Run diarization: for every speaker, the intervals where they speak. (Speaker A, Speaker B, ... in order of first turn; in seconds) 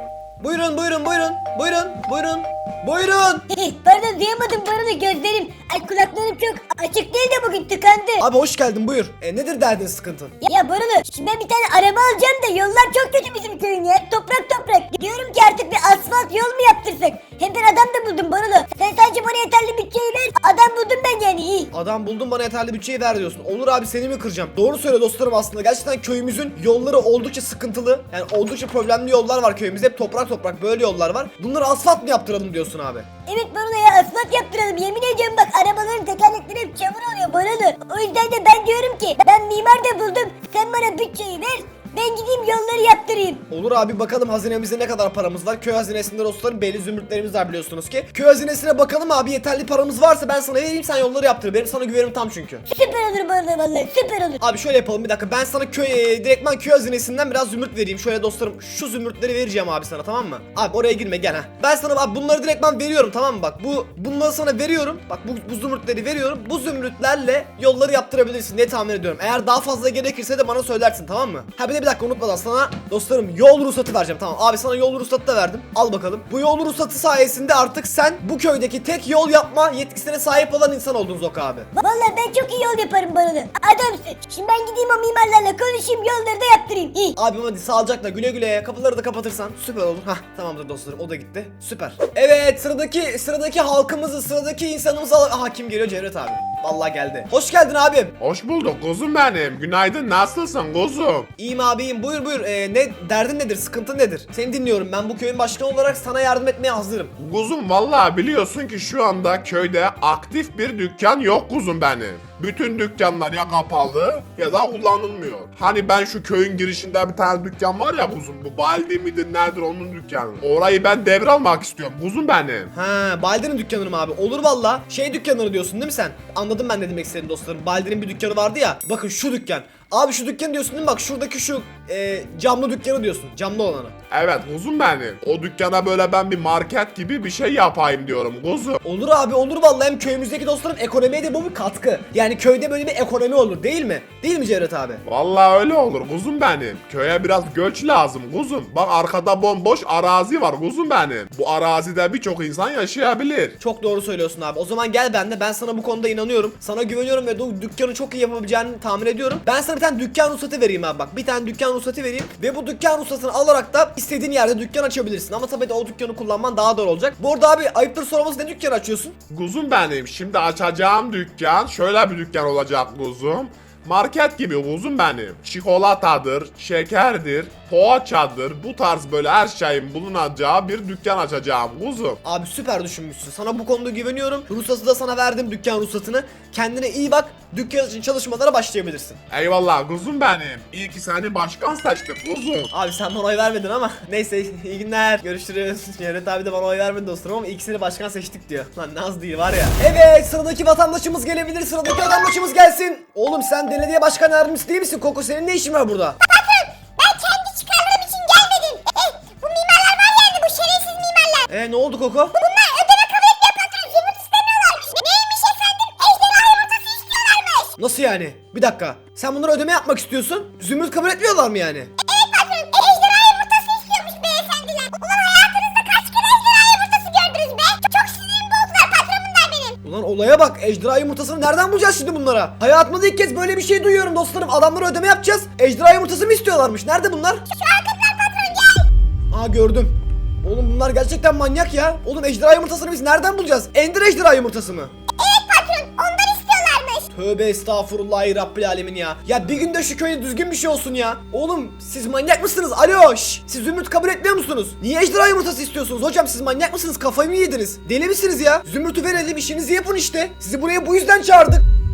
Speaker A: 0.4-3.5, 8.2-10.3, 21.7-33.1, 43.5-52.6, 54.4-81.7, 87.2-98.1, 101.4-107.1, 122.7-133.9, 138.8-145.0, 153.6-169.2, 182.2-189.2, 192.7-206.2, 211.5-212.3, 217.8-221.9, 229.8-237.4, 239.3-244.9, 247.1-261.6
Speaker B: 3.5-8.2, 10.4-21.7, 33.3-43.4, 52.6-54.4, 81.8-87.2
Speaker C: 98.2-101.3, 107.2-122.7, 134.1-138.8, 145.0-153.5, 169.3-182.2, 189.3-192.7
Speaker D: 206.3-211.4, 212.4-217.7, 222.0-229.7, 237.5-238.7, 245.2-247.1